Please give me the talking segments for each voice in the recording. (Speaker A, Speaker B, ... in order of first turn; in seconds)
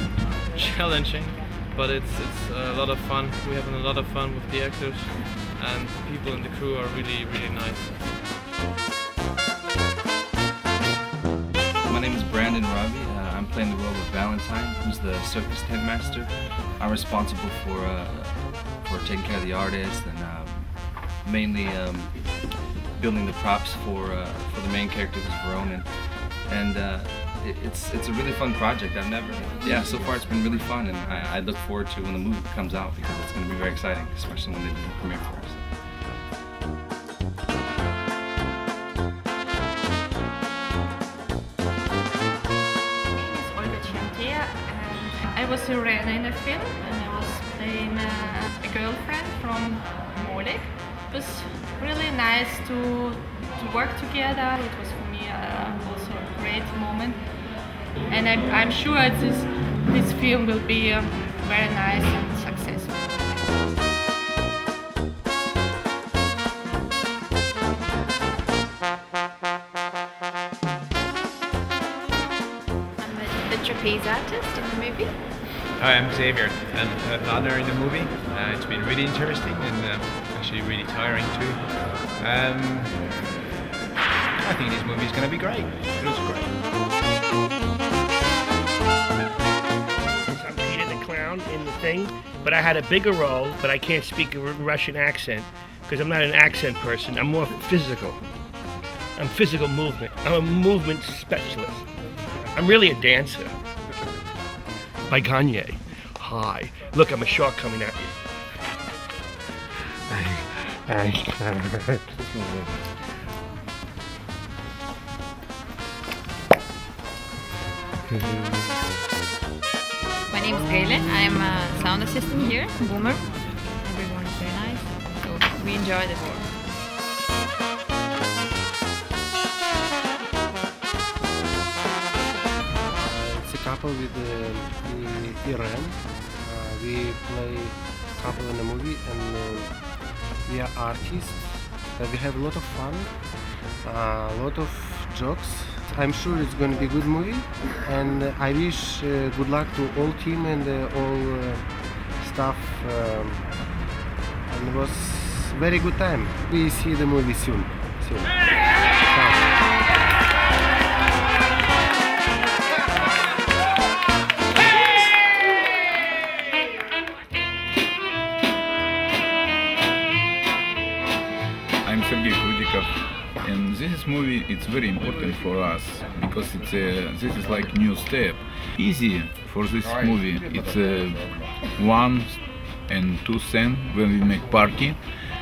Speaker A: 0.5-8.0
Speaker B: 11.8-35.9
Speaker C: 43.1-63.5
Speaker D: 73.0-75.3, 120.3-126.5
Speaker E: 75.8-83.0, 84.4-86.5
Speaker F: 90.3-98.2, 99.2-101.8, 102.5-103.5, 105.1-108.0
Speaker G: 132.9-143.3, 143.8-151.7, 152.2-153.5, 154.5-158.4, 159.0-159.5
Speaker H: 171.8-185.1